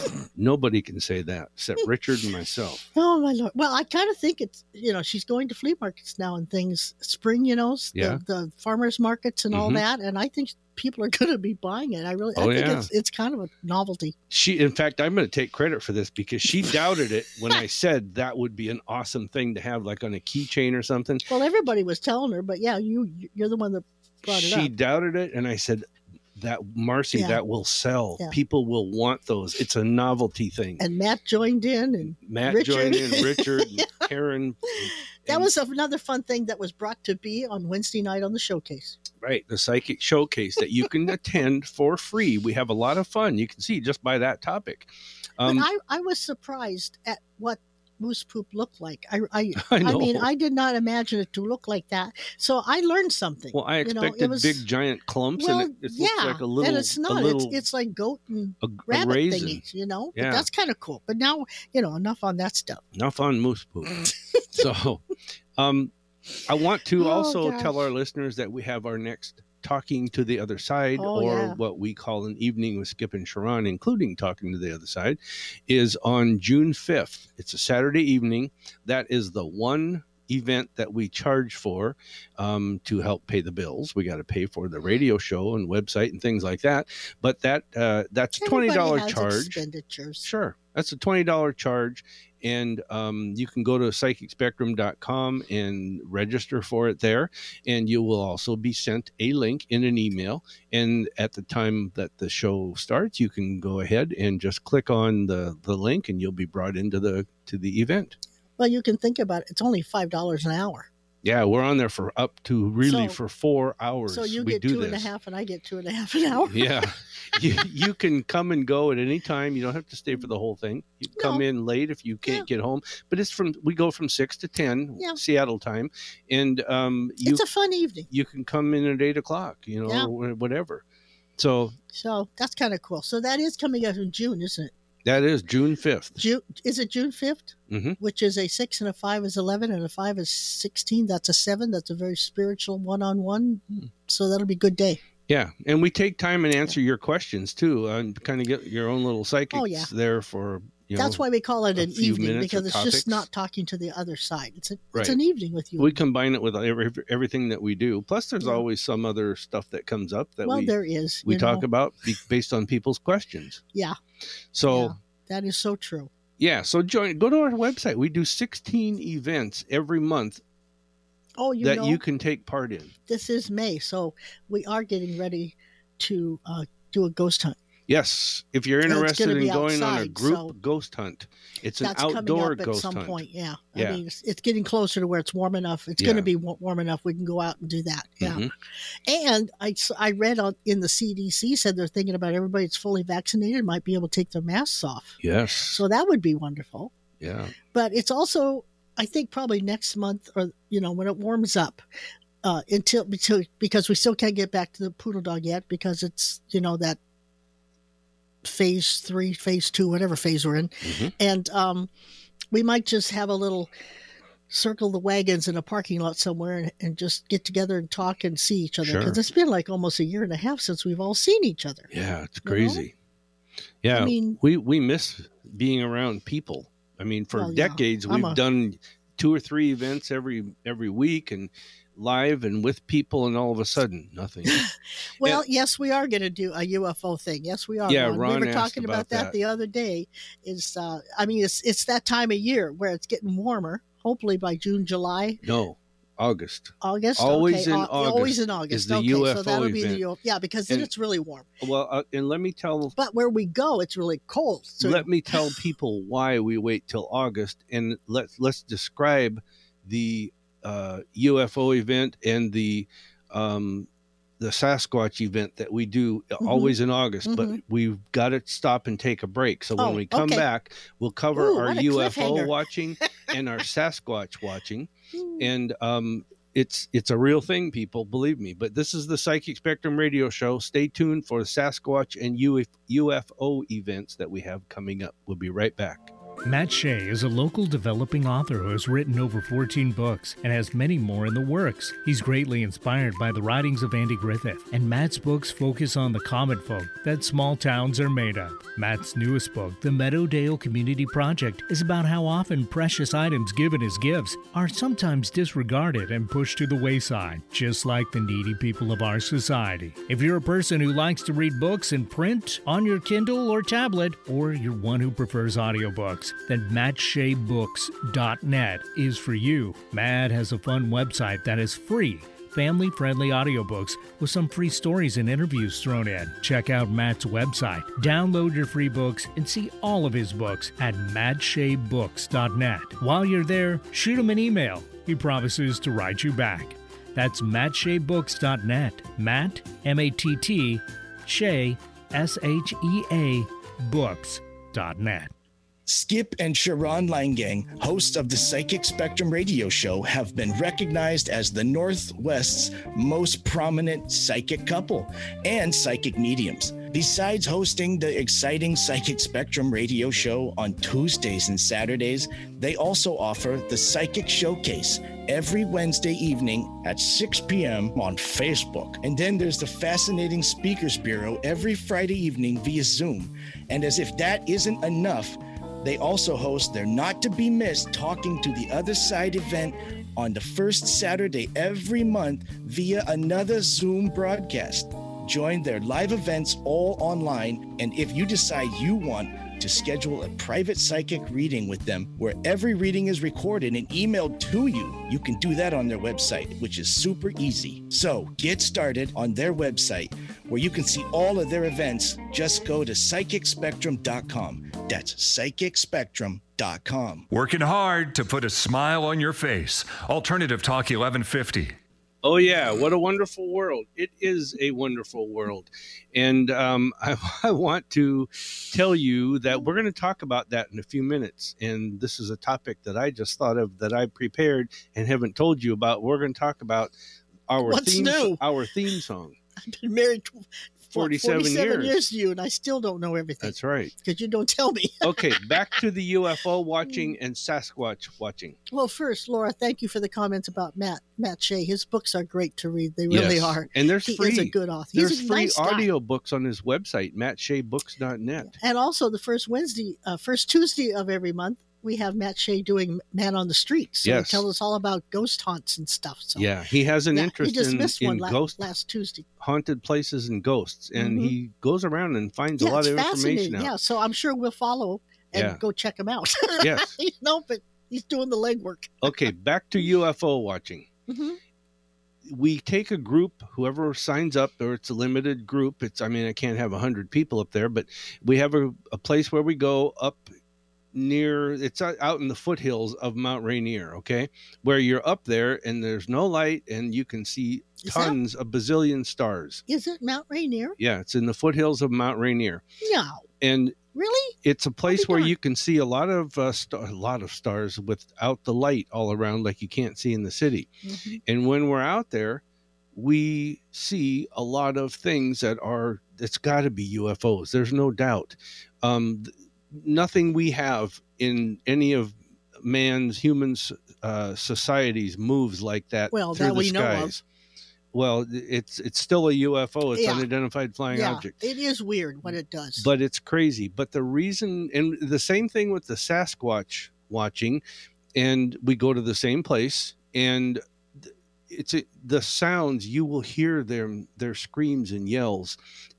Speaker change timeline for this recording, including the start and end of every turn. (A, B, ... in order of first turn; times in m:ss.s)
0:00.4-0:02.9 A
0:02.9-0:14.1 B
0:07.9-0:08.2 A
0:09.5-0:09.8 A
0:12.4-0:12.9 A
0:14.3-0:21.3 A
0:21.3-0:24.7 B
0:24.3-0:30.8 A
0:27.1-0:27.4 B
0:30.8-0:33.6 B
0:32.0-0:35.5 A
0:35.2-0:39.0 B
0:39.2-0:45.7 A
0:45.4-0:54.6 B
0:49.6-0:50.3 A
0:53.5-0:57.6 A
0:55.4-1:02.8 B
0:58.6-1:00.4 A
1:02.9-1:04.0 A
1:04.5-1:05.9 A
1:06.4-1:29.6 A
1:07.0-1:07.9 B
1:11.0-1:11.6 B
1:28.4-1:30.3 B
1:30.2-1:48.2 A
1:48.6-1:50.9 B
1:51.2-1:55.1 A
1:52.8-1:53.2 B
1:54.1-1:56.8 B
1:56.4-2:07.4 A
2:01.2-2:01.4 B
2:07.2-2:08.1 B
2:08.1-2:10.8 A
2:09.8-2:10.1 B
2:11.4-2:11.8 A
2:11.9-2:14.7 B
2:15.0-2:16.2 A
2:16.2-2:25.0 B
2:17.7-2:18.0 A
2:25.3-2:31.2 A
2:29.5-2:29.9 B
2:31.0-2:36.0 B
2:31.8-2:33.2 A
2:35.8-2:40.7 A
2:40.5-2:41.6 B
2:41.2-2:43.6 A
2:44.5-2:44.9 A
2:44.7-2:46.1 B
2:46.4-2:50.4 A
2:51.4-2:52.0 B
2:51.6-2:52.9 A
2:53.1-2:57.6 B
2:57.9-3:03.2 A
2:58.8-3:00.5 B
3:01.8-3:08.4 B
3:03.8-3:04.0 A
3:06.0-3:06.3 A
3:08.2-3:08.5 A
3:09.1-3:15.2 B
3:15.2-3:15.8 A
3:15.7-3:16.9 B
3:17.2-3:17.5 A
3:17.7-3:21.8 B
3:22.4-3:27.0 B
3:28.4-3:31.9 B
3:30.8-3:31.1 A
3:32.5-3:33.7 B
3:34.5-3:41.9 B
3:38.8-3:39.2 A
3:41.9-3:42.9 A
3:42.4-3:42.8 B
3:43.8-3:54.6 A
3:43.9-3:44.4 B
3:47.3-3:48.4 B
3:54.5-4:05.4 B
3:57.8-3:59.3 A
4:05.4-4:10.0 A
4:06.8-4:11.5 B
4:11.6-4:12.9 A
4:13.0-4:15.5 B
4:14.8-4:23.9 A
4:24.4-4:46.1 A
4:26.4-4:27.6 B
4:29.8-4:30.5 B
4:31.4-4:32.6 B
4:35.1-4:35.5 B
4:46.4-5:45.3 C
5:45.8-6:47.2 D
6:47.3-6:51.8 E
6:52.2-7:06.9 A
7:07.5-7:09.4 A
7:07.6-7:08.4 B
7:09.6-7:15.5 B
7:10.9-7:12.0 A
7:13.4-7:13.9 A
7:15.0-7:18.6 A
7:16.8-7:17.2 B
7:18.7-7:25.9 B
7:23.1-7:28.5 A
7:28.5-7:36.5 B
7:34.0-7:34.4 A
7:36.4-7:38.7 A
7:37.1-7:39.3 B
7:39.4-7:43.7 A
7:41.0-7:41.3 B
7:42.6-7:49.3 B
7:45.3-7:45.6 A
7:46.6-7:46.9 A
7:49.0-7:50.9 A
7:51.1-7:51.4 B
7:52.2-8:00.3 A
8:00.9-8:09.6 A
8:07.8-8:08.2 B
8:09.7-8:10.8 B
8:10.8-8:12.6 A
8:12.8-8:13.2 B
8:13.4-8:13.8 A
8:13.9-8:14.4 B
8:14.4-8:20.7 A
8:14.9-8:15.3 B
8:20.8-8:21.2 B
8:21.2-8:22.4 A
8:22.9-8:37.2 A
8:36.1-8:37.1 B
8:37.9-8:41.4 A
8:40.0-8:40.3 B
8:40.9-8:42.9 B
8:42.2-8:47.6 A
8:48.2-8:55.6 A